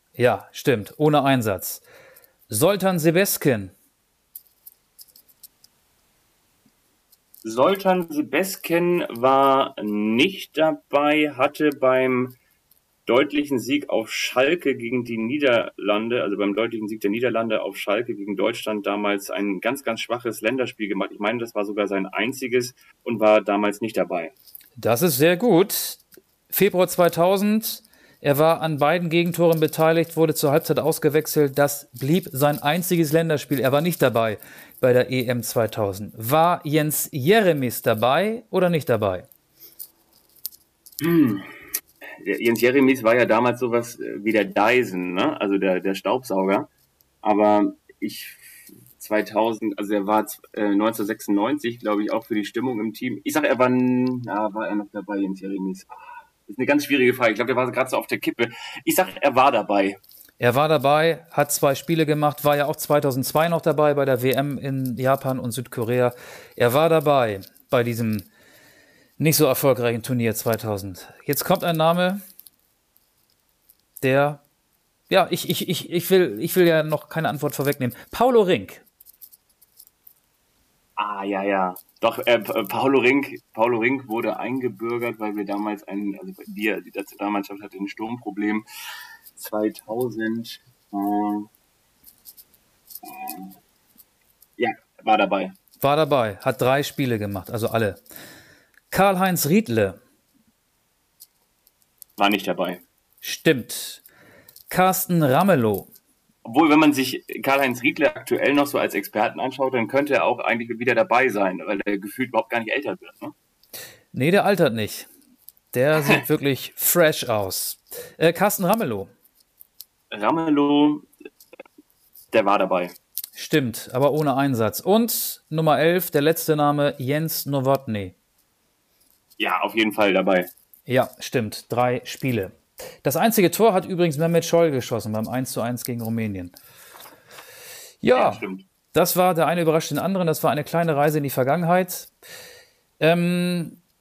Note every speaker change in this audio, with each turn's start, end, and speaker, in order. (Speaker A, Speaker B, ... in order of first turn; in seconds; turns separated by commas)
Speaker A: 0.1-1.8, Speaker A: 2.5-3.7, Speaker B: 7.4-12.3, Speaker B: 13.1-24.3, Speaker A: 24.8-39.3, Speaker B: 41.0-41.5, Speaker B: 42.2-46.7, Speaker B: 47.2-55.9, Speaker B: 56.5-60.0, Speaker A: 60.4-68.3, Speaker A: 69.2-72.2, Speaker A: 74.0-74.4, Speaker A: 75.1-78.8, Speaker B: 81.0-88.6, Speaker B: 89.3-91.5, Speaker B: 93.0-93.5, Speaker B: 94.6-95.5, Speaker A: 95.8-98.0, Speaker A: 98.9-100.0, Speaker B: 102.2-102.8, Speaker A: 103.2-104.0, Speaker A: 104.7-105.9, Speaker B: 106.4-113.3, Speaker A: 114.1-115.1, Speaker A: 115.7-119.1, Speaker B: 120.1-121.1, Speaker B: 122.3-123.0, Speaker A: 123.3-128.1, Speaker B: 129.4-130.5, Speaker A: 130.9-136.5, Speaker A: 138.0-142.1, Speaker B: 138.1-138.6, Speaker A: 143.0-143.8